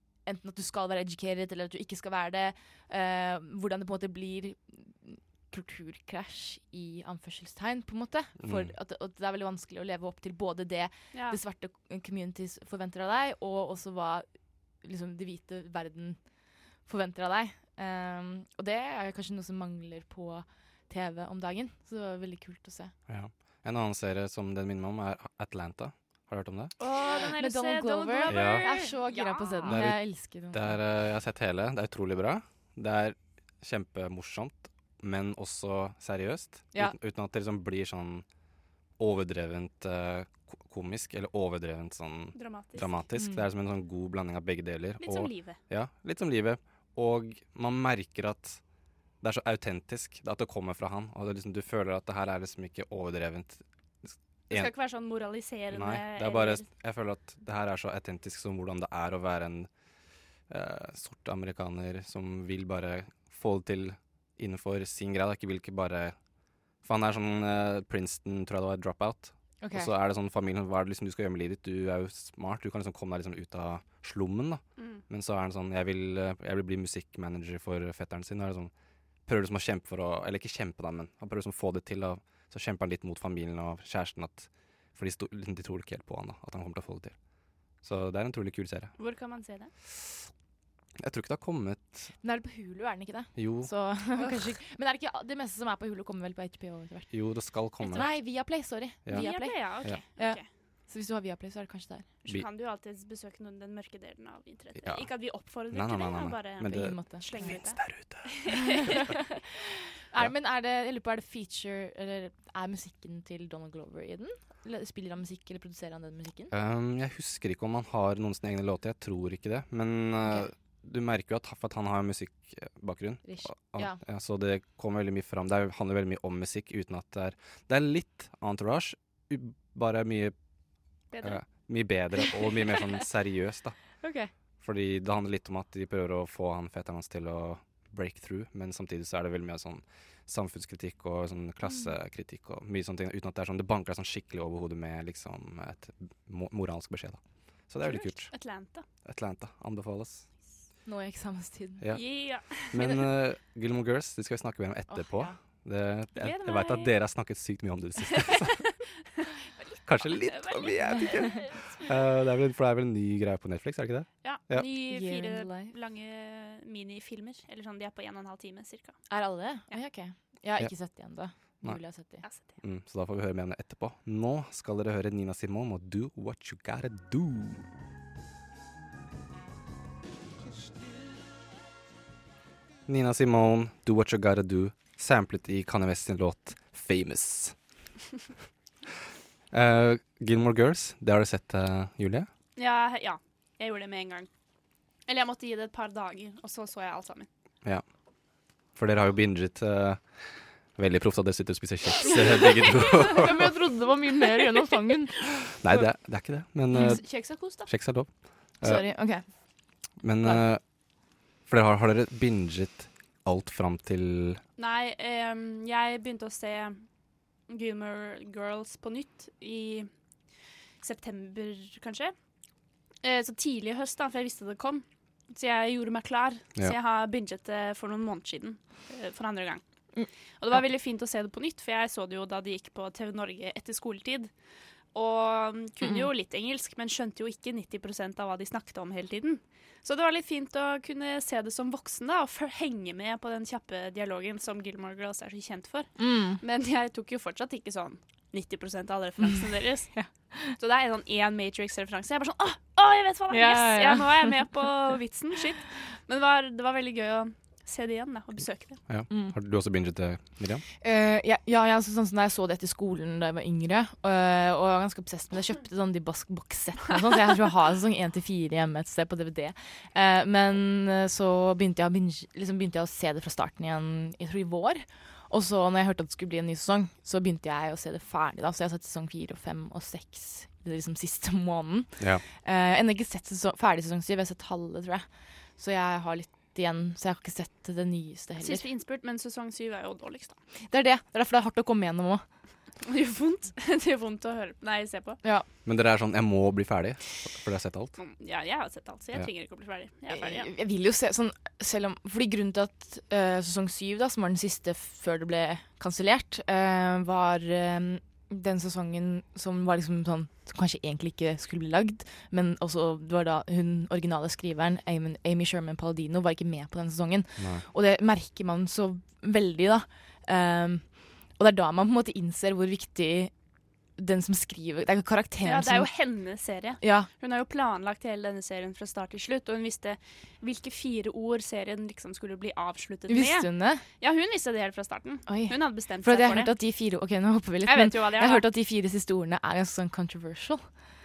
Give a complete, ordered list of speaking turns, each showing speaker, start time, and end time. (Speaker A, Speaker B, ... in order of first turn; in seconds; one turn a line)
Speaker A: 0.2-14.2
Speaker B: 8.4-8.7
Speaker C: 11.1-11.4
Speaker A: 14.8-16.2
Speaker A: 16.9-22.9
Speaker B: 23.1-26.7
Speaker C: 26.8-29.8
Speaker A: 27.2-30.8
Speaker B: 28.3-28.7
Speaker B: 29.6-30.0
Speaker B: 30.5-38.2
Speaker B: 39.0-48.6
Speaker C: 42.3-43.0
Speaker A: 43.1-43.4
Speaker C: 45.0-45.6
Speaker B: 49.2-54.7
Speaker C: 54.5-56.6
Speaker B: 55.7-59.7
Speaker B: 60.5-66.2
Speaker B: 66.8-78.7
Speaker A: 69.6-69.9
Speaker C: 74.8-75.0
Speaker B: 79.2-87.2
Speaker B: 87.8-88.9
Speaker C: 89.0-89.7
Speaker B: 91.0-92.1
Speaker A: 92.2-97.2
Speaker B: 93.4-93.7
Speaker B: 97.1-98.1
Speaker C: 97.8-98.2
Speaker A: 97.9-102.1
Speaker C: 99.1-100.5
Speaker C: 102.2-109.1
Speaker B: 104.8-105.1
Speaker B: 105.7-109.0
Speaker A: 106.7-107.5
Speaker A: 108.8-109.2
Speaker A: 110.0-116.5
Speaker B: 116.5-130.3
Speaker A: 123.2-124.0
Speaker C: 131.1-131.4
Speaker B: 131.2-133.8
Speaker A: 134.0-134.3
Speaker B: 134.6-148.3
Speaker A: 141.6-141.9
Speaker C: 147.8-148.8
Speaker B: 149.0-150.3
Speaker A: 150.8-151.8
Speaker C: 151.9-152.8
Speaker B: 152.7-158.6
Speaker A: 152.8-153.0
Speaker A: 154.9-155.3
Speaker C: 156.2-156.9
Speaker C: 159.6-161.9
Speaker B: 159.8-164.7
Speaker C: 164.2-169.0
Speaker A: 164.8-165.7
Speaker A: 169.1-172.2
Speaker C: 172.2-172.6
Speaker B: 172.6-177.7
Speaker B: 182.8-187.5
Speaker B: 189.5-192.3
Speaker C: 192.6-194.3
Speaker C: 195.1-197.3
Speaker B: 198.7-203.5
Speaker C: 202.8-203.2
Speaker A: 203.0-205.5
Speaker B: 205.6-207.0
Speaker A: 206.7-207.0
Speaker C: 206.7-207.7
Speaker B: 207.7-208.1
Speaker A: 208.6-209.2
Speaker B: 210.0-210.6
Speaker B: 211.5-214.4
Speaker C: 214.6-216.8
Speaker C: 217.5-219.9
Speaker C: 220.8-222.1
Speaker C: 223.0-229.6
Speaker C: 230.4-234.3
Speaker C: 234.9-249.9
Speaker A: 246.0-246.4
Speaker A: 249.9-250.5
Speaker C: 250.6-258.8
Speaker A: 253.3-254.7
Speaker B: 258.9-260.6
Speaker A: 259.1-259.3
Speaker A: 260.8-285.1
Speaker A: 285.6-288.6
Speaker C: 288.4-290.4
Speaker A: 290.7-292.2
Speaker C: 292.8-295.2
Speaker B: 295.6-297.9
Speaker C: 298.0-300.5
Speaker A: 300.1-323.3
Speaker B: 317.4-317.6
Speaker A: 324.0-325.9
Speaker C: 325.4-333.5
Speaker A: 326.8-327.1
Speaker A: 333.1-333.8
Speaker C: 334.0-336.5
Speaker A: 335.3-340.6
Speaker C: 337.6-338.4